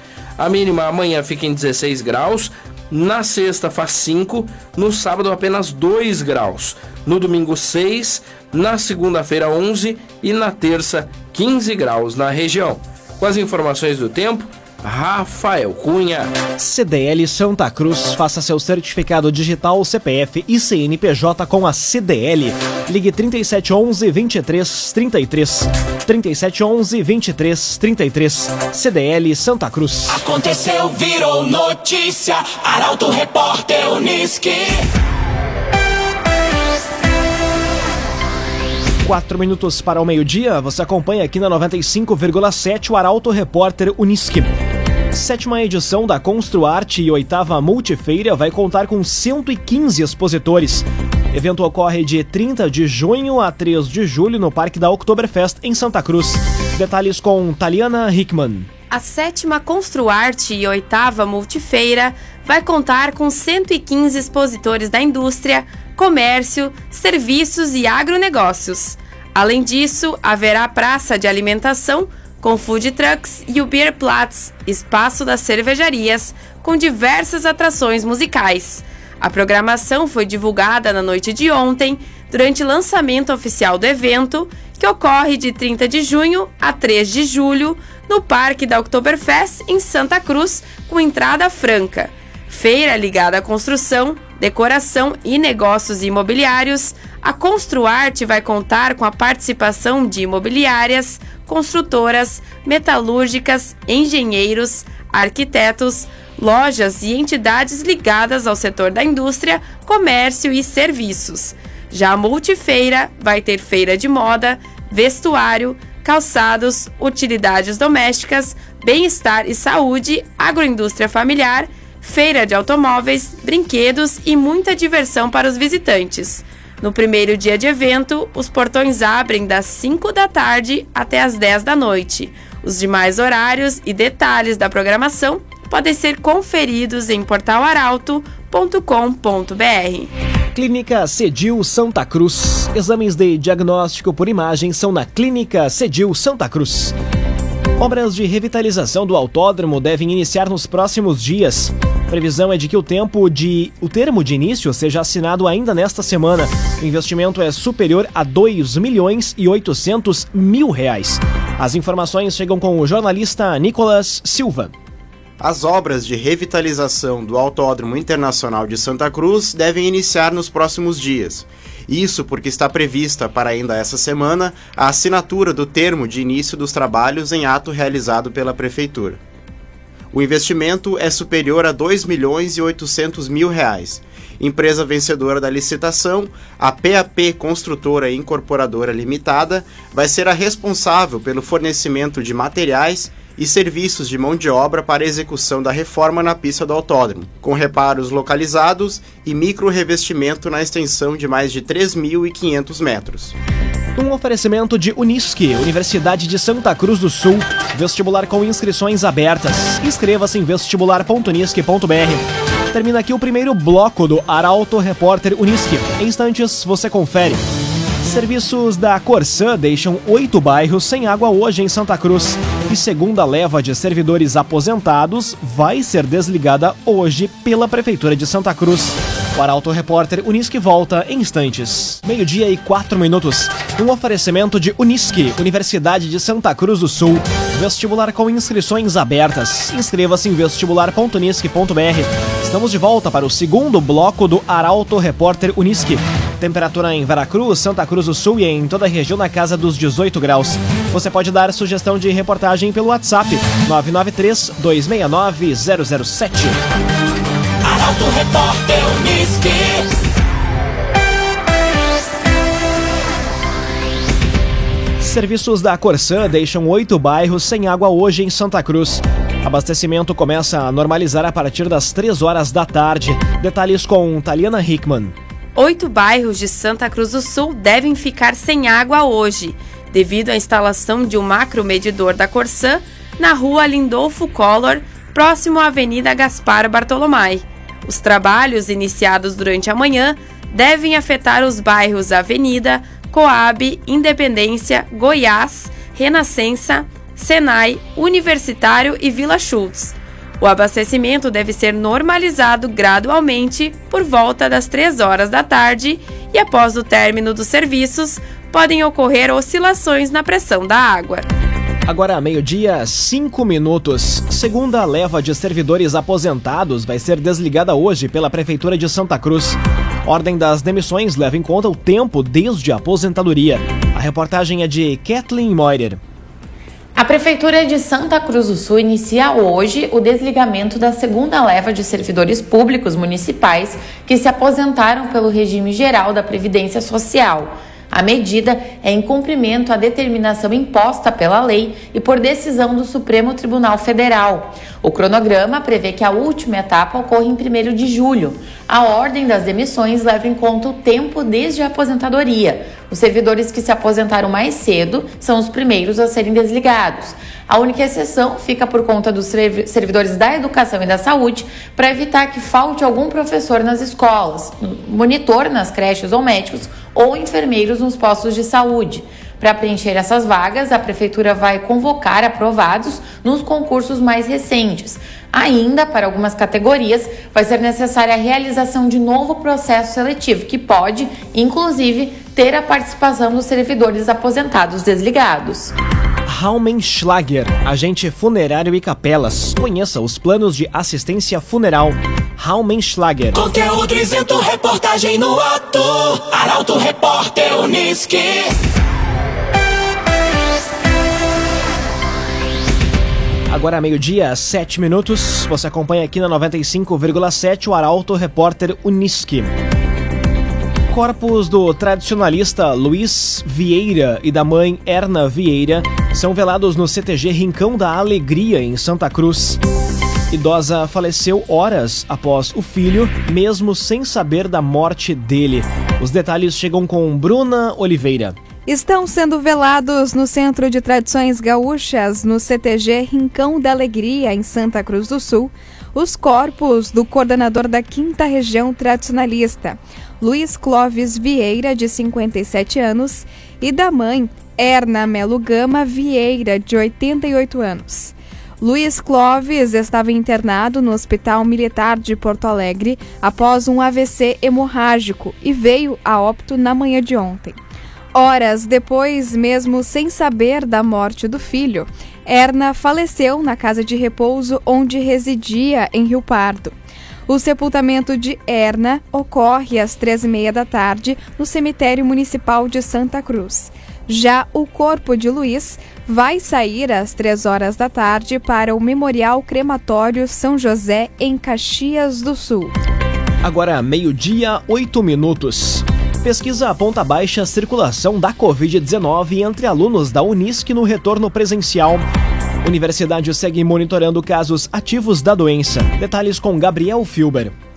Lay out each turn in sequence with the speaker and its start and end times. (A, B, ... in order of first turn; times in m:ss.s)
0:00.4-0:16.3 A
0:16.6-0:30.2 B
0:30.1-0:34.4 C
0:39.0-0:44.5 B
0:45.1-0:58.7 B
0:58.9-2:20.1 D
2:20.5-2:26.9 B
2:27.8-2:44.7 B
2:45.4-2:59.2 E
3:00.1-3:23.3 E
3:24.0-3:37.4 B
3:38.0-4:16.6 B
4:17.7-4:19.8 C
4:25.0-4:35.2 B
4:35.6-5:11.3 D
5:11.9-5:26.0 B
5:27.0-6:25.7 F
6:26.3-6:33.4 B
6:33.4-6:38.5 C
6:43.5-6:49.5 B
6:50.9-6:59.6 B
7:00.3-7:08.4 B
7:08.7-7:37.6 G
7:38.1-7:46.7 G
7:47.3-8:02.7 G
8:03.4-8:12.0 B
8:12.6-8:17.5 B